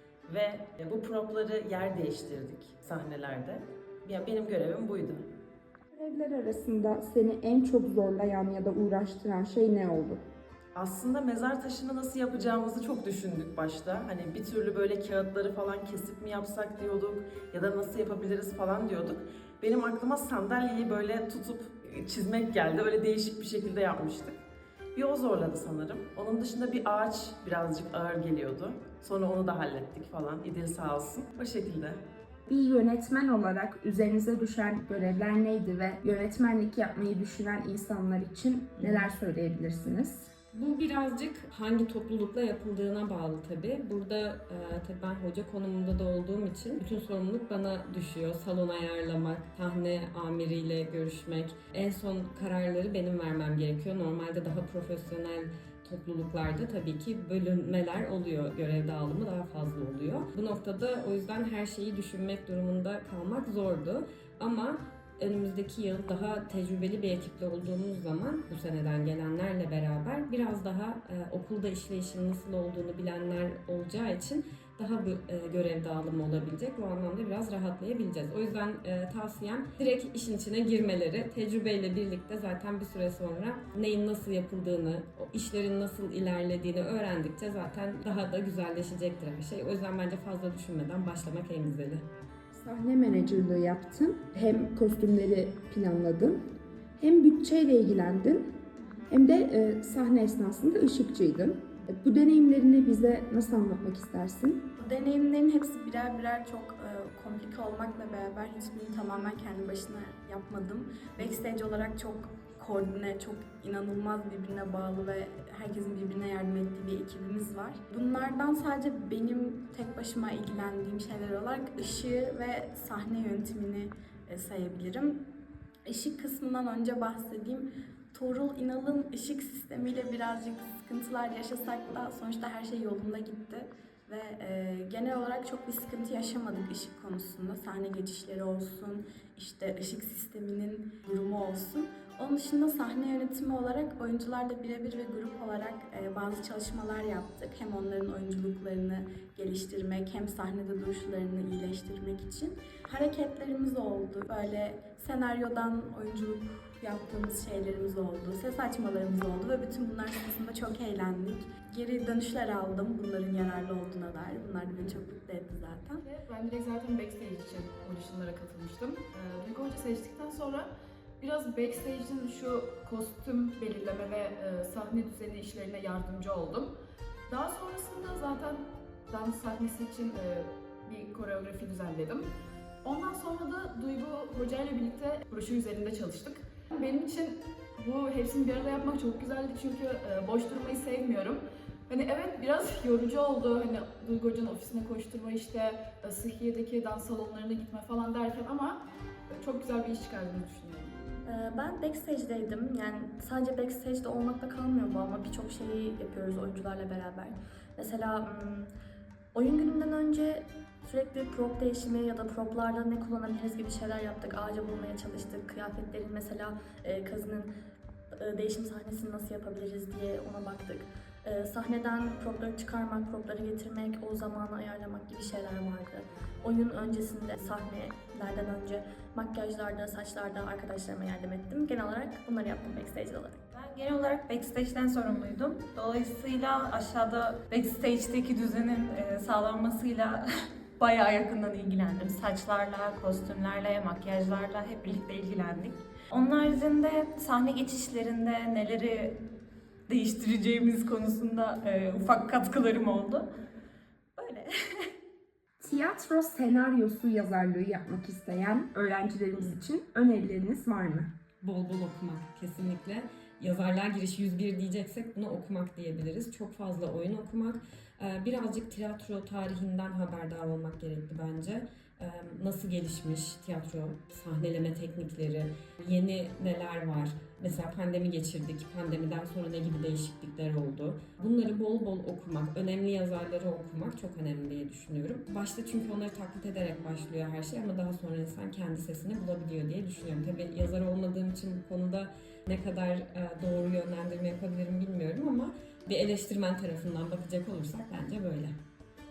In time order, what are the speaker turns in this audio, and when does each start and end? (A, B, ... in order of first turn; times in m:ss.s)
0:00.3-0:05.3 A
0:05.9-0:10.2 B
0:10.8-0:24.4 A
0:25.0-0:32.0 A
0:32.5-0:40.3 B
0:40.5-1:32.1 C
1:32.5-1:36.4 B
1:37.0-1:38.4 B
1:39.1-1:44.6 B
1:44.8-2:05.2 D
2:05.9-2:46.0 D
2:46.0-2:50.7 E
2:51.2-2:56.7 E
2:57.3-3:02.3 E
3:02.8-3:21.0 E
3:21.3-3:28.7 F
3:29.3-3:37.5 F
3:38.2-3:53.4 F
3:53.5-4:00.2 G
4:00.8-4:09.2 G
4:09.9-4:13.3 G
4:14.2-4:14.5 G
4:15.6-4:21.1 B
4:21.4-4:58.6 C